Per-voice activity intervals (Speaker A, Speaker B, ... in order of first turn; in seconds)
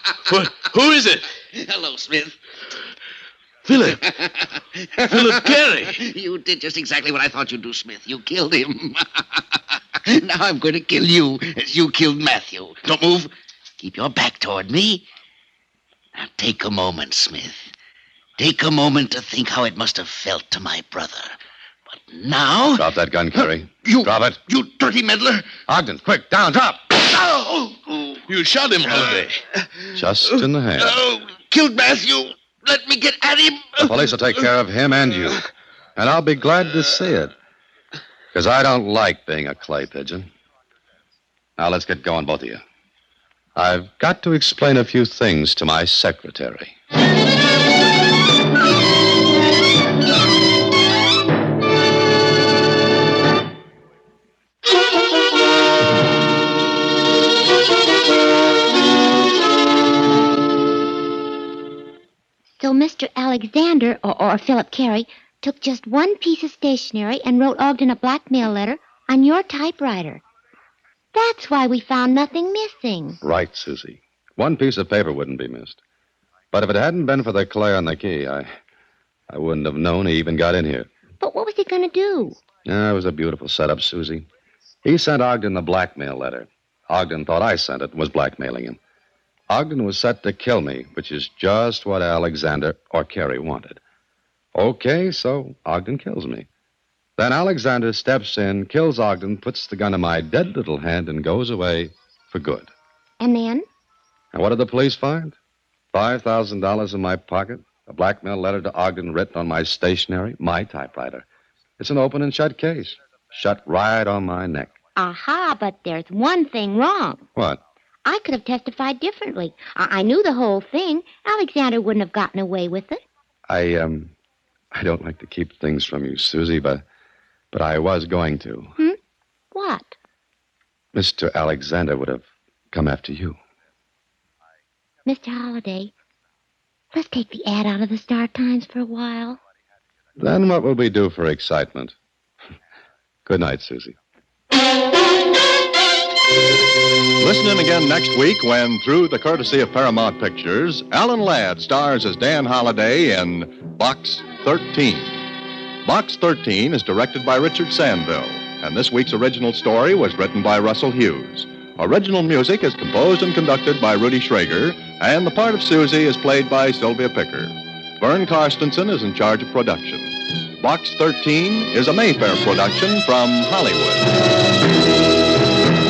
Speaker A: 0.2-1.3, 3.6-4.2, 5.0-6.0, 28.3-29.4
Speaker B: 1.5-2.4, 3.8-9.4, 10.1-15.1, 16.1-17.7, 18.4-21.4, 21.9-25.5, 27.0-28.2, 30.2-34.1
Speaker C: 22.8-24.4, 25.7-26.9, 29.9-30.9, 33.8-35.4, 36.0-37.3, 38.3-40.3, 41.6-42.6, 43.6-46.7, 73.2-75.8, 76.5-78.5, 79.3-80.9, 82.7-84.3, 84.8-88.8, 89.5-93.8, 94.5-96.5, 97.2-102.7, 104.3-105.4, 105.9-111.2, 111.8-114.8, 117.3-117.6, 123.5-124.1, 124.8-126.8, 127.5-128.7, 130.9-133.4, 140.2-141.9, 143.3-144.0
Speaker D: 62.6-70.2, 71.1-73.2, 81.2-82.4, 103.2-103.7, 115.0-117.3, 118.1-123.0, 129.5-130.0, 135.1-135.9, 136.9-139.4
Speaker E: 147.2-155.2, 155.8-174.1